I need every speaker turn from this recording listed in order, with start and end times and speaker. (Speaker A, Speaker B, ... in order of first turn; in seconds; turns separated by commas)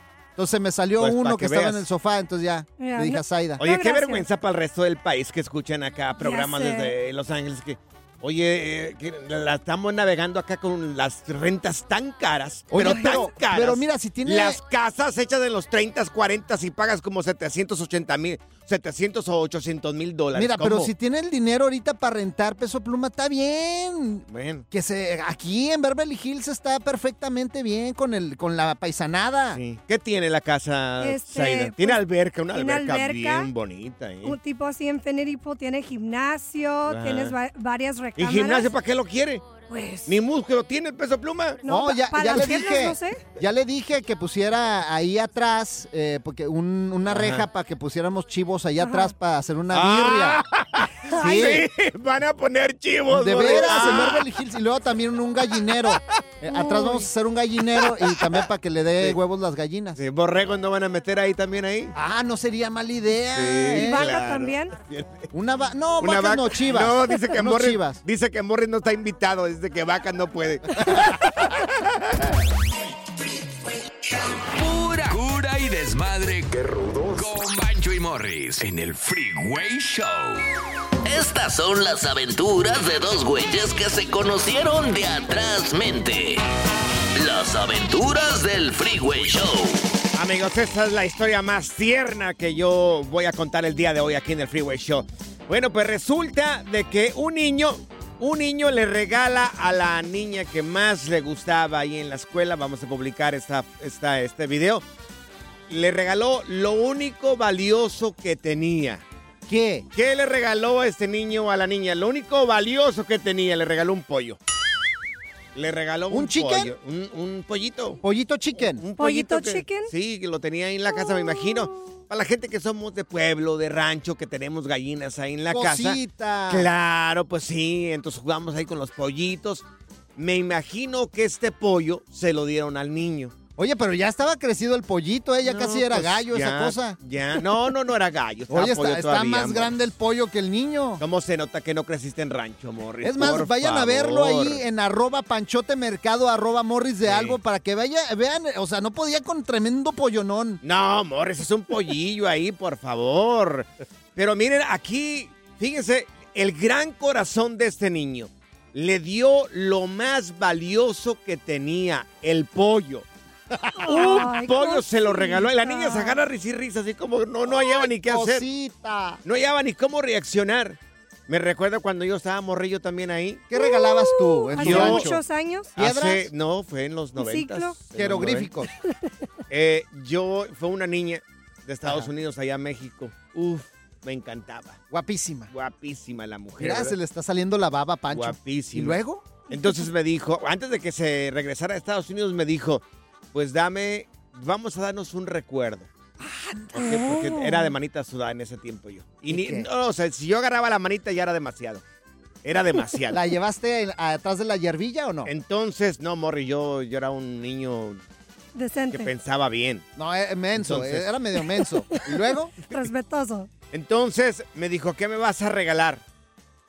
Speaker A: 0.4-3.6, Speaker B: 1.0-1.8, Speaker C: 2.8-4.2, Speaker B: 3.6-20.9, Speaker C: 6.2-6.9, Speaker A: 12.7-14.6, Speaker C: 12.8-13.2, Speaker A: 20.3-29.6, Speaker B: 24.3-24.6, Speaker B: 29.5-34.4, Speaker C: 31.0-33.5, Speaker C: 34.2-38.7, Speaker B: 36.9-37.4, Speaker B: 38.1-39.5, Speaker C: 39.6-40.1, Speaker B: 40.0-41.6, Speaker C: 41.6-43.2, Speaker A: 41.6-50.4, Speaker B: 47.1-47.5, Speaker C: 48.8-49.1, Speaker B: 49.7-54.3, Speaker A: 51.1-51.7, Speaker A: 53.1-60.0, Speaker C: 56.5-57.1, Speaker B: 57.9-58.3, Speaker B: 60.0-61.9, Speaker A: 61.9-64.0, Speaker B: 63.3-65.3, Speaker C: 63.7-64.8, Speaker A: 65.3-68.0, Speaker B: 66.0-71.8, Speaker D: 74.5-80.4, Speaker E: 81.0-86.4, Speaker E: 87.2-89.8, Speaker B: 90.1-104.8, Speaker B: 105.7-109.0, Speaker A: 109.5-109.8, Speaker B: 109.9-114.4, Speaker B: 115.5-118.0, Speaker A: 116.1-116.7, Speaker A: 118.0-118.8, Speaker B: 118.6-129.6, Speaker C: 119.0-119.9, Speaker A: 125.5-126.7, Speaker B: 130.2-133.3, Speaker A: 133.6-137.0, Speaker B: 135.4-139.7, Speaker A: 138.5-141.0, Speaker B: 141.0-144.6, Speaker A: 143.0-150.6, Speaker B: 147.0-147.4, Speaker B: 150.6-163.1, Speaker C: 163.8-166.2, Speaker B: 163.9-168.4, Speaker A: 167.5-169.2, Speaker B: 169.2-173.5, Speaker A: 173.5-175.2, Speaker C: 173.5-175.7, Speaker B: 174.6-175.1, Speaker B: 175.8-178.5, Speaker A: 175.8-176.3, Speaker C: 177.2-177.8, Speaker A: 177.9-178.7, Speaker B: 179.5-184.8, Speaker A: 181.8-182.1, Speaker A: 184.9-185.5, Speaker B: 185.5-186.9, Speaker A: 186.6-189.3, Speaker B: 188.1-195.9, Speaker C: 189.5-189.9, Speaker A: 196.2-197.4, Speaker B: 196.7-201.8, Speaker A: 199.3-199.7, Speaker B: 202.4-203.2, Speaker A: 203.1-205.3, Speaker B: 205.2-208.0, Speaker C: 208.5-209.1, Speaker B: 208.9-209.8, Speaker A: 210.0-212.5, Speaker B: 210.6-211.1, Speaker C: 211.9-213.5, Speaker B: 213.7-216.0